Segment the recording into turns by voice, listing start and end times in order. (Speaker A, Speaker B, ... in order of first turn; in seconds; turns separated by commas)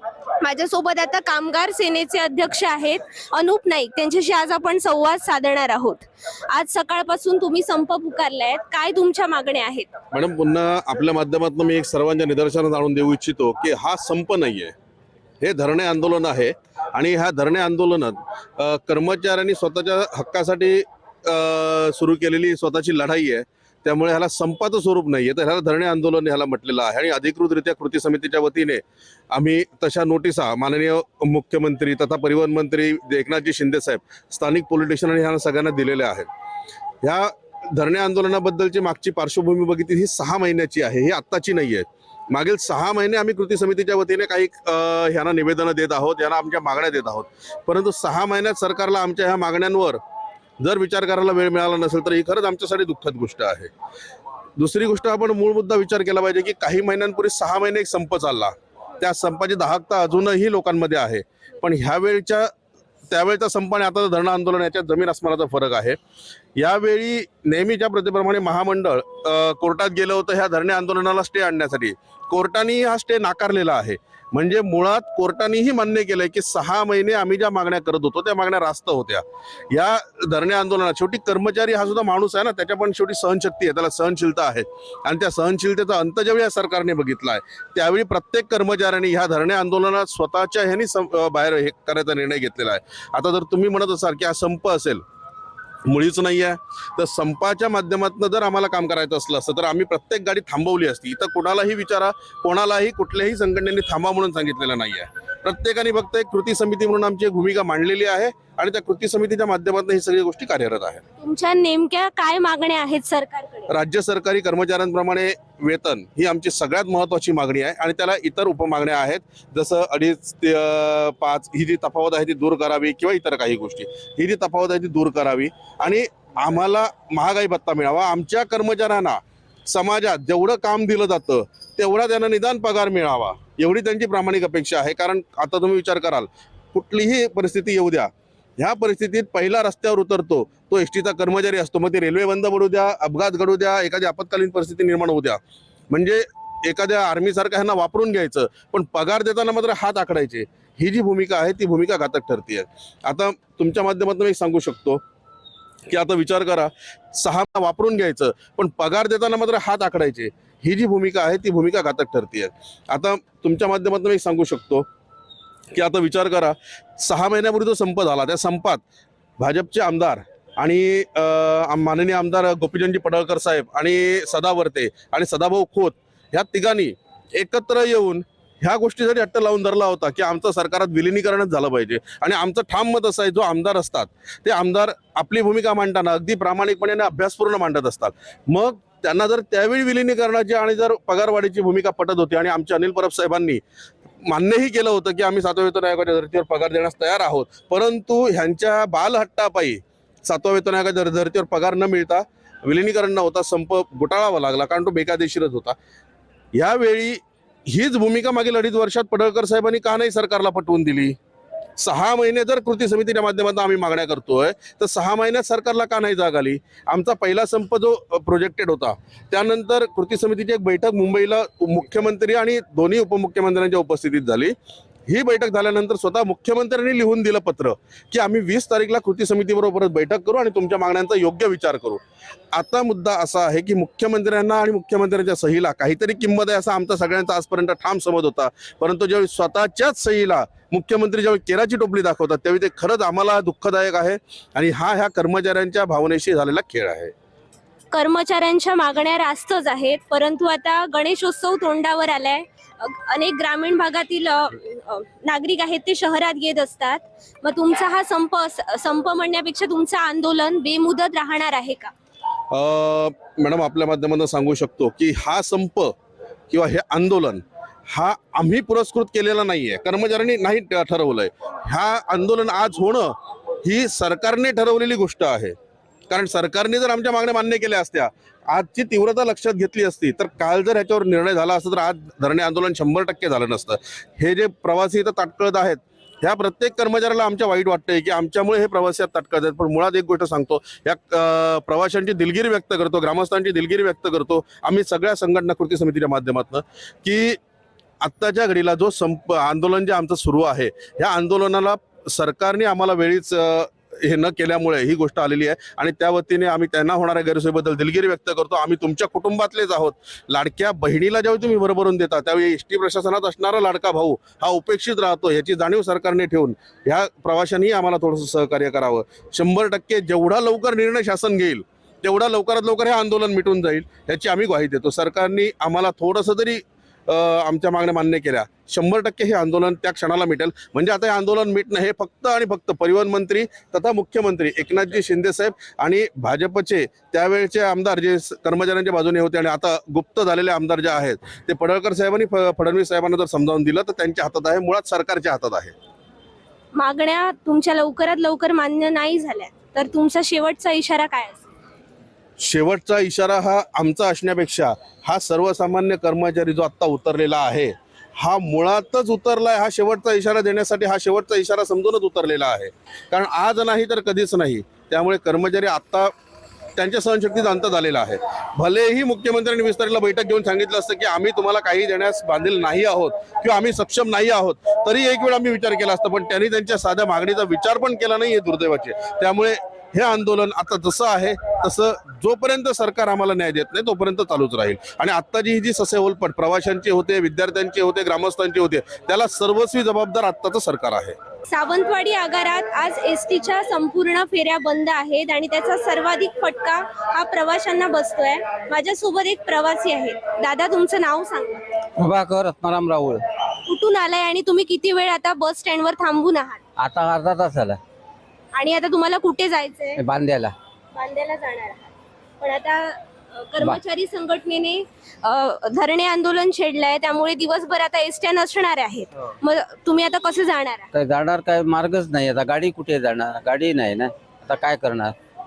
Speaker A: 0.4-9.9, Speaker B: 10.1-14.7, Speaker B: 15.4-36.3, Speaker B: 37.0-50.0, Speaker B: 50.6-53.7, Speaker B: 54.6-62.5, Speaker B: 63.1-66.0, Speaker B: 66.5-95.0, Speaker B: 95.9-111.0, Speaker A: 111.2-113.7, Speaker B: 113.7-155.0, Speaker B: 155.9-164.9, Speaker B: 165.7-168.8, Speaker B: 169.4-193.6, Speaker B: 194.2-205.8, Speaker B: 206.5-211.2, Speaker B: 211.8-224.5, Speaker B: 225.1-232.0, Speaker B: 232.5-247.1, Speaker A: 247.9-261.9, Speaker B: 262.5-265.9, Speaker B: 266.5-275.6, Speaker B: 276.1-297.4, Speaker B: 298.0-345.7, Speaker A: 346.8-351.4, Speaker B: 352.4-366.1, Speaker B: 366.8-391.1, Speaker A: 391.5-401.6, Speaker C: 402.0-403.2, Speaker A: 403.6-406.6, Speaker C: 406.8-407.8, Speaker A: 408.5-410.0, Speaker C: 410.0-410.5, Speaker A: 410.9-420.9, Speaker C: 420.9-425.1